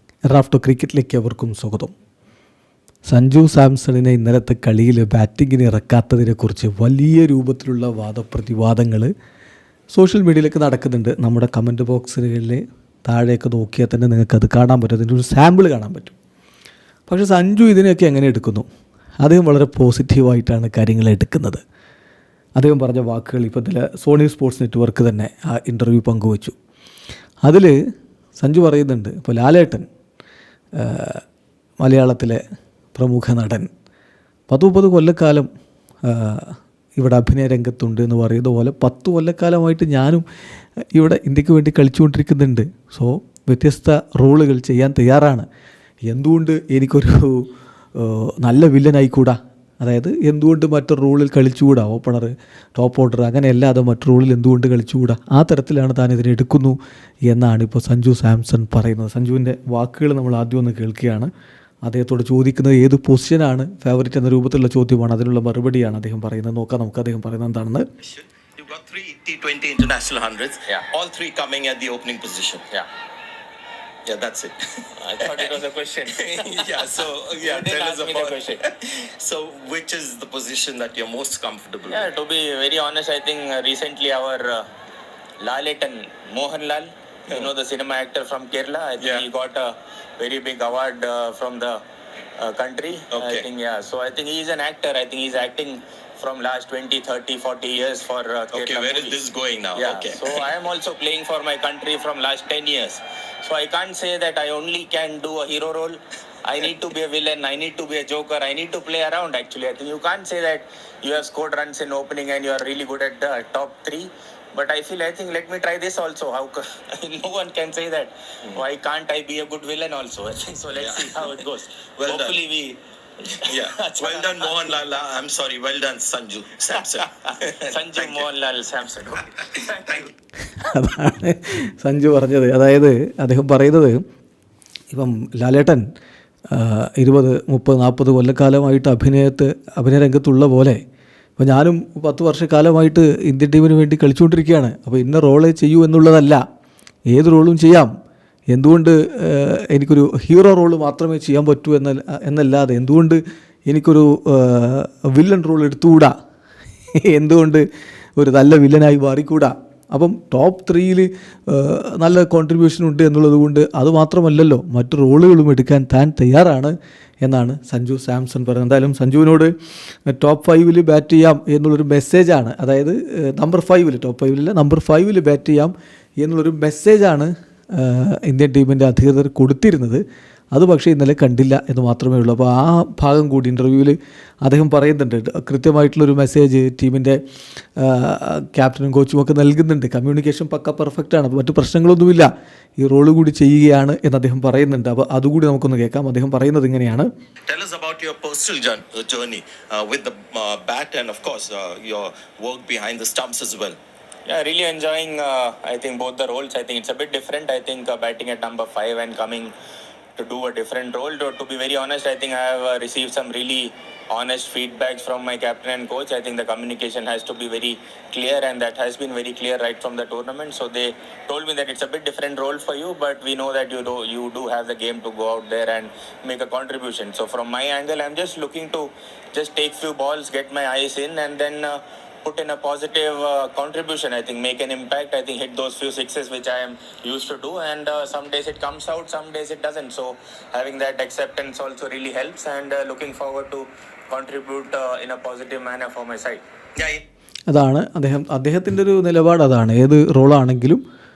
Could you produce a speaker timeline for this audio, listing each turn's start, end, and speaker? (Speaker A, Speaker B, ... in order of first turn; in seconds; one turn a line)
Speaker A: 0.3-1.9
Speaker A: 3.1-9.1
Speaker A: 9.9-16.1
Speaker A: 17.1-18.6
Speaker A: 19.2-21.6
Speaker A: 22.6-26.5
Speaker A: 27.4-27.7
Speaker A: 28.4-29.9
Speaker A: 30.8-31.2
Speaker A: 31.8-32.4
Speaker A: 33.0-33.7
Speaker A: 34.5-35.5
Speaker A: 36.0-40.2
Speaker A: 40.9-45.5
Speaker A: 46.1-56.8
Speaker A: 57.3-61.3
Speaker A: 61.8-67.9
Speaker B: 68.0-72.6
Speaker B: 74.0-82.1
Speaker C: 75.0-78.6
Speaker C: 81.9-84.7
Speaker C: 85.4-91.8
Speaker B: 89.0-89.2
Speaker C: 92.4-99.2
Speaker B: 93.1-93.5
Speaker B: 98.5-100.5
Speaker C: 99.8-124.8
Speaker B: 120.7-121.4
Speaker B: 122.0-122.4
Speaker B: 123.4-128.2
Speaker C: 127.2-130.1
Speaker B: 129.5-130.1
Speaker A: 130.6-134.0
Speaker A: 134.9-135.8
Speaker A: 136.5-140.8
Speaker A: 141.4-146.4
Speaker A: 147.1-147.9
Speaker A: 148.5-156.2
Speaker A: 157.0-157.7
Speaker A: 158.2-169.5
Speaker A: 170.1-187.2
Speaker A: 187.8-197.1
Speaker B: 197.5-203.8
Speaker C: 204.3-209.5
Speaker C: 210.2-246.4
Speaker B: 246.8-247.0
Speaker A: 247.5-250.8